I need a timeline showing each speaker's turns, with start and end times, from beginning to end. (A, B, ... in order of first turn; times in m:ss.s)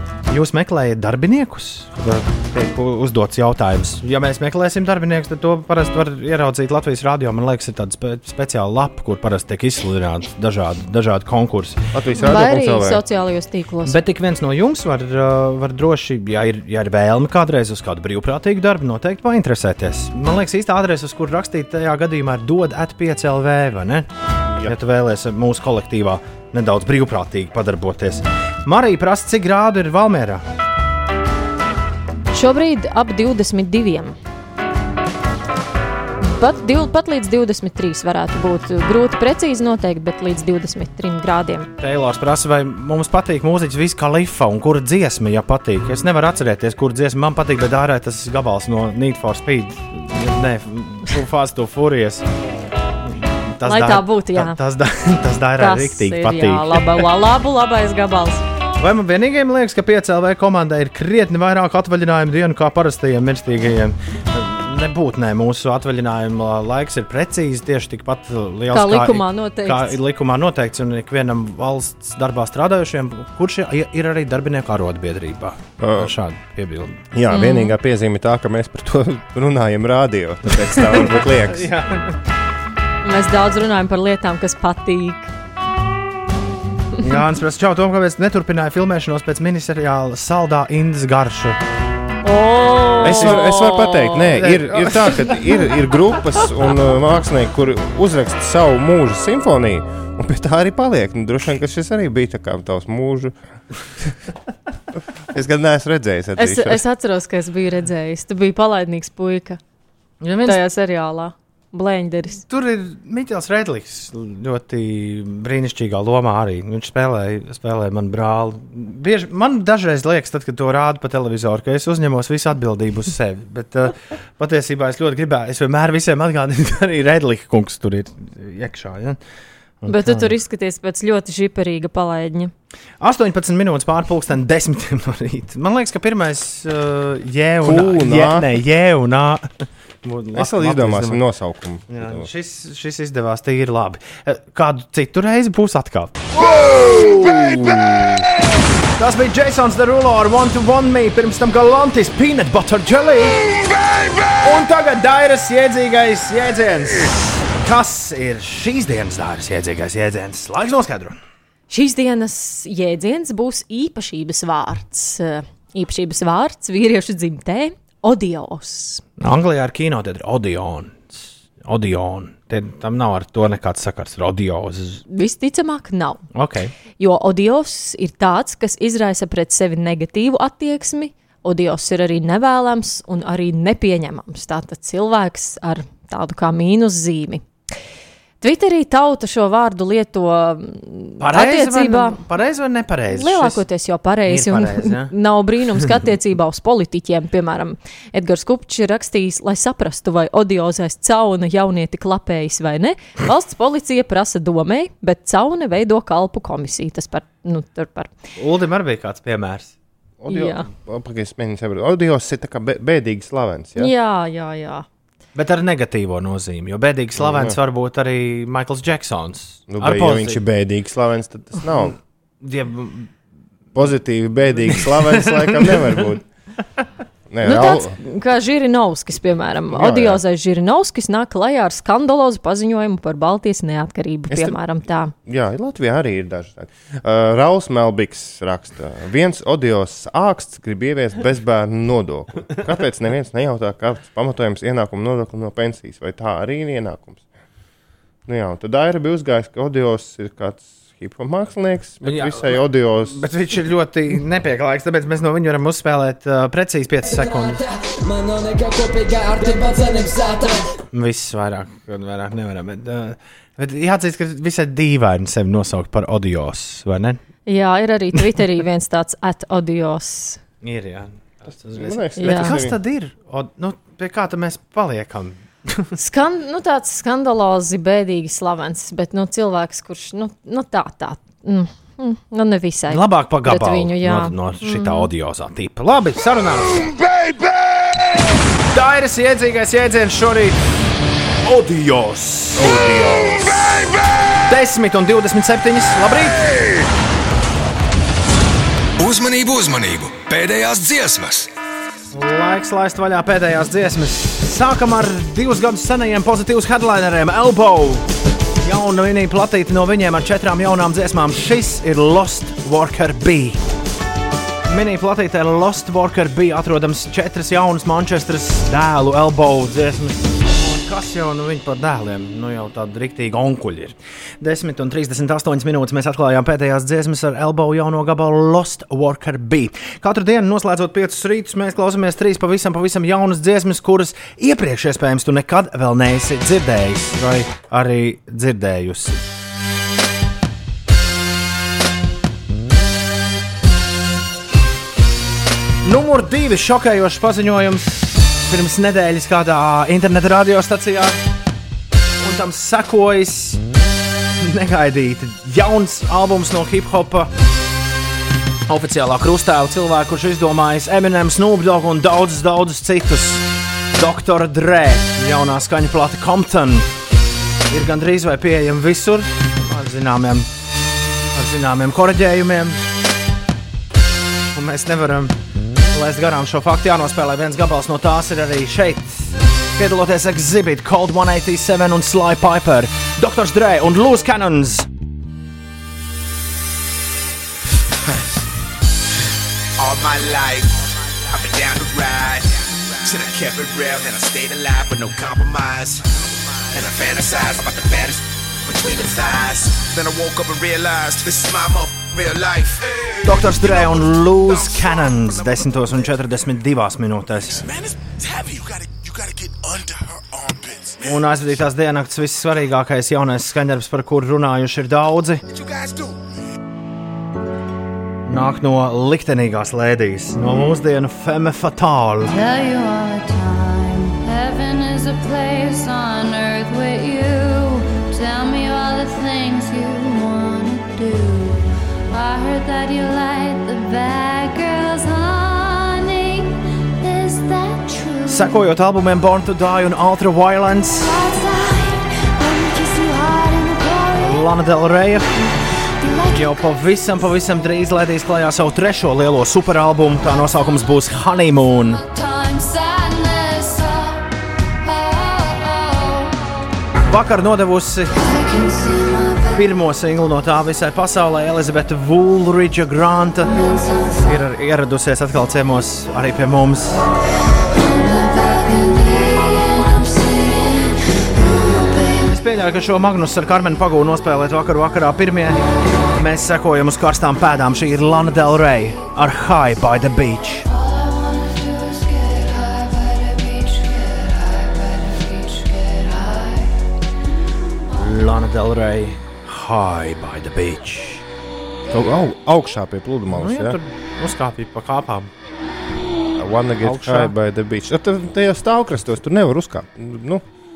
0:00.3-0:11.8 A
0:11.9-0:13.0 B
0:12.2-0:14.0 C
0:13.8-0:24.1 A
0:24.5-0:24.8 B
0:24.6-0:30.4 A
0:32.3-0:34.1 C
0:36.2-0:41.7 C
0:41.8-0:52.2 A
0:53.5-0:57.0 A
0:53.6-0:54.6 C
0:55.6-0:58.4 C
0:58.8-1:17.0 A
1:08.7-1:10.0 C
1:15.8-1:16.1 B
1:17.1-1:21.7 B
1:17.3-1:17.7 C
1:20.7-1:22.1 A
1:23.0-1:25.3 C
1:27.0-1:31.6 A
1:32.2-1:34.3 C
1:33.0-1:43.4 B
1:33.0-1:33.4 A
1:34.3-1:35.4 A
1:45.3-1:46.8 B
1:46.4-1:49.6 C
1:50.2-1:50.6 A
1:50.4-1:52.4 C
1:52.5-2:09.2 A
2:09.8-2:10.3 A
2:09.9-2:12.5 C
2:13.0-2:21.2 A
2:17.6-2:18.5 B
2:20.3-2:22.3 B
2:21.9-2:27.6 A
2:26.9-2:28.3 B
2:29.0-2:33.6 A
2:34.4-2:41.2 A
2:41.7-2:49.0 C
2:49.2-2:55.0 A
2:55.1-2:56.2 C
2:56.3-2:56.7 A
2:57.0-3:07.4 C
3:08.4-3:12.2 C
3:11.2-3:13.6 A
3:13.1-3:28.1 C
3:14.3-3:15.1 A
3:28.4-3:29.7 A
3:30.2-3:33.9 B
3:30.3-3:30.6 C
3:33.8-3:34.8 C
3:35.4-3:40.4 A
3:37.2-3:37.5 B
3:39.7-3:42.0 B
3:41.8-3:43.1 A
3:43.7-3:46.2 B
3:44.7-3:46.0 A
3:47.3-3:48.0 B
3:47.4-3:55.1 C
3:49.7-3:50.2 B
3:54.3-3:54.6 B
3:55.2-4:07.2 B
4:08.2-4:13.2 B
4:12.0-4:17.6 A
4:20.9-4:27.2 A
4:27.5-4:30.4 C
4:30.6-4:35.9 A
4:31.7-4:32.8 B
4:32.2-4:32.5 C
4:36.0-4:45.1 C
4:42.9-4:46.9 A
4:48.7-4:50.6 A
4:51.4-4:52.8 A
4:52.6-4:53.6 B
4:54.5-4:56.4 A
4:59.0-5:01.5 D
5:02.1-5:08.1 A
5:08.6-5:13.6 A
5:14.7-5:39.2 A
5:45.8-5:51.2 A
5:52.2-5:53.6 A
5:54.4-5:57.3 A
5:58.7-6:06.9 A
6:07.7-6:10.5 A
6:11.3-6:12.8 A
6:14.5-6:15.4 A
6:15.9-6:24.9 A
6:29.8-6:45.6 D
6:43.2-6:47.6 A
6:47.6-6:51.0 D
6:51.0-6:55.4 A
6:55.5-6:56.1 D
6:58.3-7:02.4 A
7:02.3-7:18.6 E
7:18.3-7:21.1 A
7:21.0-7:24.5 E
7:24.2-7:25.3 A
7:26.0-7:26.7 E
7:26.3-7:32.0 A
7:31.9-7:36.4 E
7:37.1-7:38.2 A
7:38.1-7:39.7 E
7:39.5-7:47.1 A
7:43.6-7:44.1 E
7:47.7-7:52.3 E
7:52.2-7:55.6 A
7:56.1-8:00.7 A
8:00.7-8:06.8 E
8:07.9-8:11.2 A
8:11.9-8:13.8 B
8:13.3-8:15.3 A
8:16.3-8:20.4 B
8:16.8-8:17.3 A